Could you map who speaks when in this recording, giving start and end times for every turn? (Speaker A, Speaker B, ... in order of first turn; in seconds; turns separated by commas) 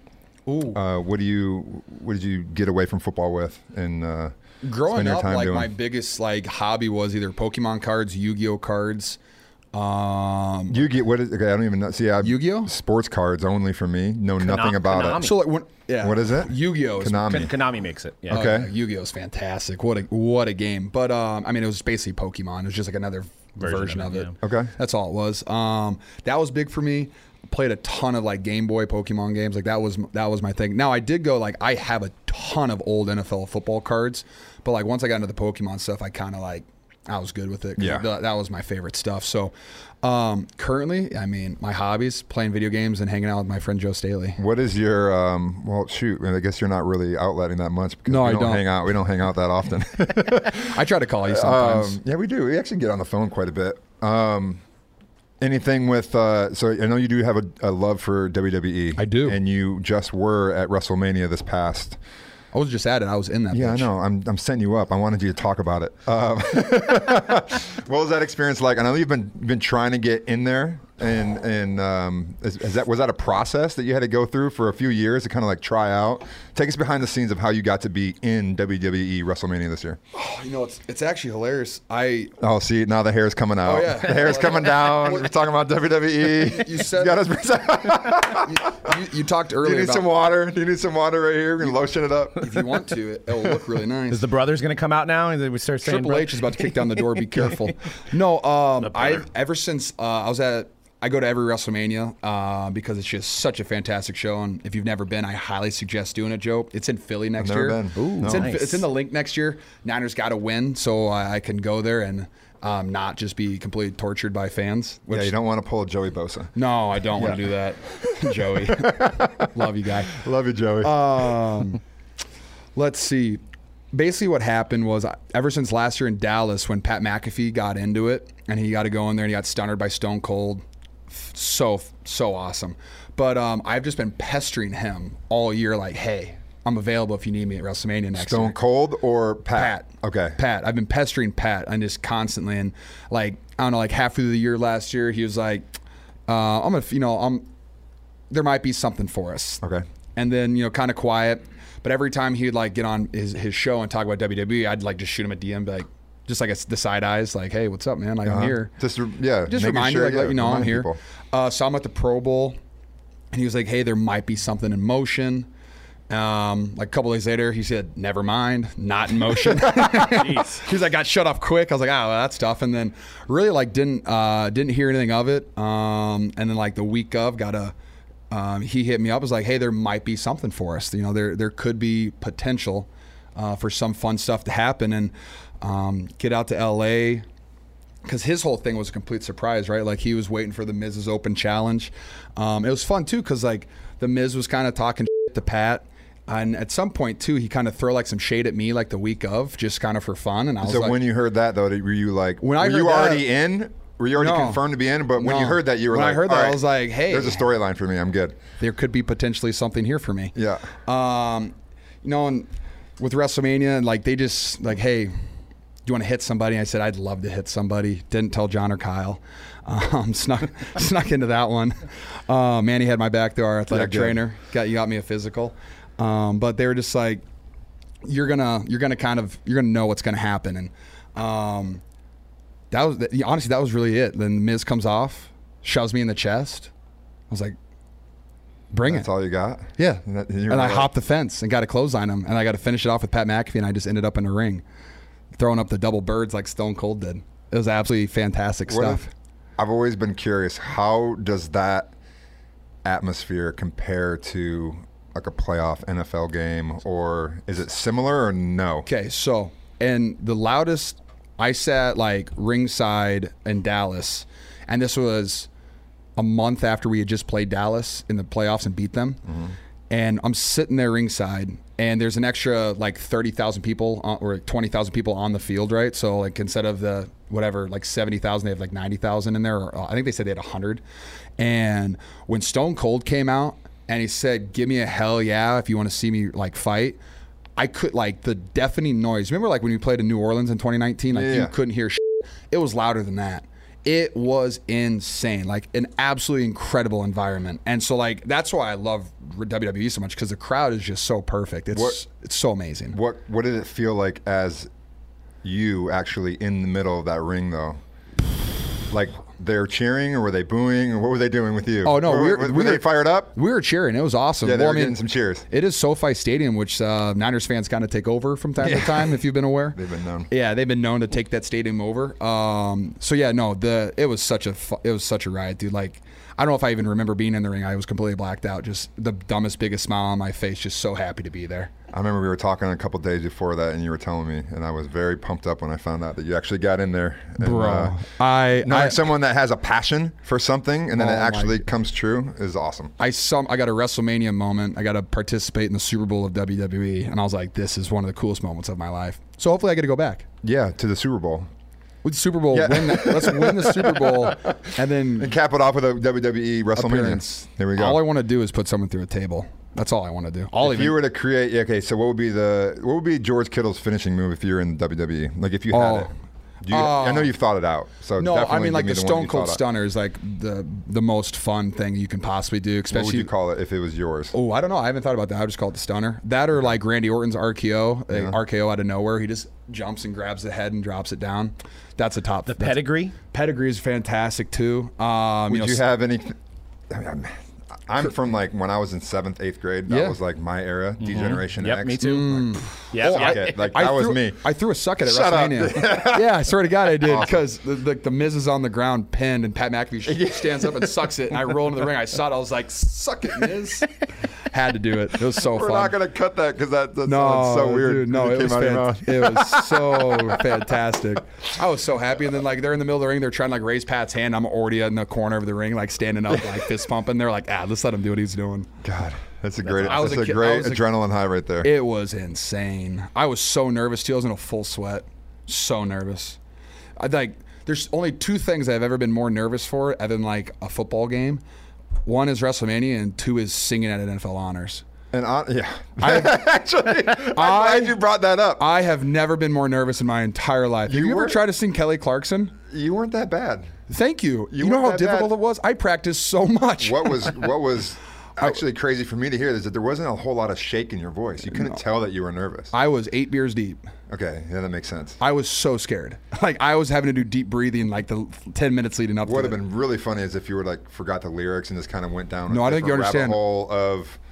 Speaker A: 0.5-0.8, Speaker B: 0.7-4.3, Speaker A: 4.6-9.2, Speaker B: 4.9-5.7, Speaker A: 9.7-10.8, Speaker B: 10.7-15.3, Speaker A: 12.2-12.7, Speaker C: 14.4-15.4, Speaker A: 15.1-17.4, Speaker B: 16.0-17.5, Speaker C: 17.3-18.4, Speaker B: 18.3-18.7, Speaker A: 18.3-44.4, Speaker C: 23.6-24.3, Speaker B: 24.4-24.7, Speaker B: 37.8-38.0, Speaker B: 44.4-54.6, Speaker A: 48.1-48.6, Speaker A: 50.4-52.0, Speaker B: 55.4-62.0, Speaker A: 59.0-59.4, Speaker A: 62.5-63.9, Speaker B: 63.5-80.0, Speaker A: 80.1-82.4, Speaker B: 82.4-88.9, Speaker A: 83.6-85.3, Speaker A: 86.4-87.3, Speaker A: 88.1-90.1, Speaker B: 89.6-92.8, Speaker A: 92.4-94.2, Speaker C: 94.1-97.0, Speaker A: 95.8-115.3, Speaker C: 98.8-99.2, Speaker B: 107.4-108.5, Speaker C: 108.0-108.8, Speaker B: 115.1-116.5, Speaker A: 116.5-120.2, Speaker B: 117.1-121.4, Speaker A: 120.8-121.8, Speaker A: 122.7-123.4, Speaker A: 123.9-138.6, Speaker B: 138.1-140.4, Speaker A: 139.5-145.7, Speaker A: 146.3-147.4, Speaker A: 148.3-149.6, Speaker A: 150.2-158.7, Speaker B: 158.2-161.0, Speaker A: 159.5-162.6, Speaker A: 163.3-165.5, Speaker A: 166.1-177.7, Speaker C: 169.9-170.6, Speaker A: 178.3-187.2, Speaker A: 188.0-201.0, Speaker B: 200.6-208.4, Speaker A: 202.4-203.3, Speaker A: 204.1-204.6, Speaker A: 205.2-207.5, Speaker A: 208.6-215.1, Speaker B: 210.3-210.7, Speaker A: 215.8-227.2, Speaker B: 223.7-224.2, Speaker A: 228.0-231.8, Speaker A: 232.7-236.7, Speaker A: 237.3-237.6, Speaker A: 238.7-239.1, Speaker B: 238.9-240.9, Speaker A: 239.8-244.6, Speaker A: 245.3-249.1, Speaker B: 248.7-249.0, Speaker B: 249.6-251.9, Speaker B: 252.8-258.9, Speaker A: 258.9-265.5, Speaker A: 266.1-269.2, Speaker B: 269.3-269.5, Speaker A: 269.9-280.8, Speaker A: 281.4-287.0, Speaker A: 287.6-303.0, Speaker B: 291.1-291.5, Speaker B: 302.9-304.7, Speaker B: 305.4-307.8, Speaker B: 308.9-313.3, Speaker A: 311.8-319.8, Speaker B: 314.4-315.4, Speaker B: 318.6-319.2, Speaker B: 319.7-320.3, Speaker A: 320.3-331.7, Speaker B: 331.9-342.9, Speaker A: 337.4-339.1, Speaker A: 340.9-341.6, Speaker A: 343.0-350.3, Speaker B: 350.4-351.5, Speaker A: 352.0-355.4, Speaker B: 352.5-354.6, Speaker B: 355.2-358.0, Speaker A: 356.7-361.0, Speaker B: 360.6-366.1, Speaker A: 365.7-366.1, Speaker B: 366.6-369.6, Speaker A: 366.7-367.3, Speaker A: 368.2-373.3, Speaker B: 372.9-374.3, Speaker A: 374.3-385.8, Speaker B: 378.1-378.4, Speaker C: 382.5-383.1, Speaker B: 385.5-386.4, Speaker B: 386.9-397.4, Speaker A: 389.9-390.2, Speaker C: 391.0-393.7, Speaker A: 392.0-405.9, Speaker B: 400.1-401.8, Speaker B: 405.3-410.6, Speaker A: 407.0-418.7, Speaker B: 416.3-416.7, Speaker B: 418.8-421.7, Speaker C: 419.6-420.2, Speaker A: 419.8-420.8, Speaker A: 421.6-426.4, Speaker A: 427.0-431.4, Speaker A: 432.0-434.8, Speaker B: 435.1-438.6, Speaker A: 436.0-436.4, Speaker A: 437.0-438.0, Speaker A: 438.6-442.6, Speaker B: 440.9-441.4, Speaker B: 442.7-443.7, Speaker A: 443.9-447.5, Speaker B: 444.5-445.3, Speaker B: 446.8-452.7, Speaker A: 451.5-451.8, Speaker A: 452.7-453.8, Speaker B: 454.1-455.2, Speaker A: 455.2-459.6, Speaker B: 459.2-464.2, Speaker A: 462.5-463.4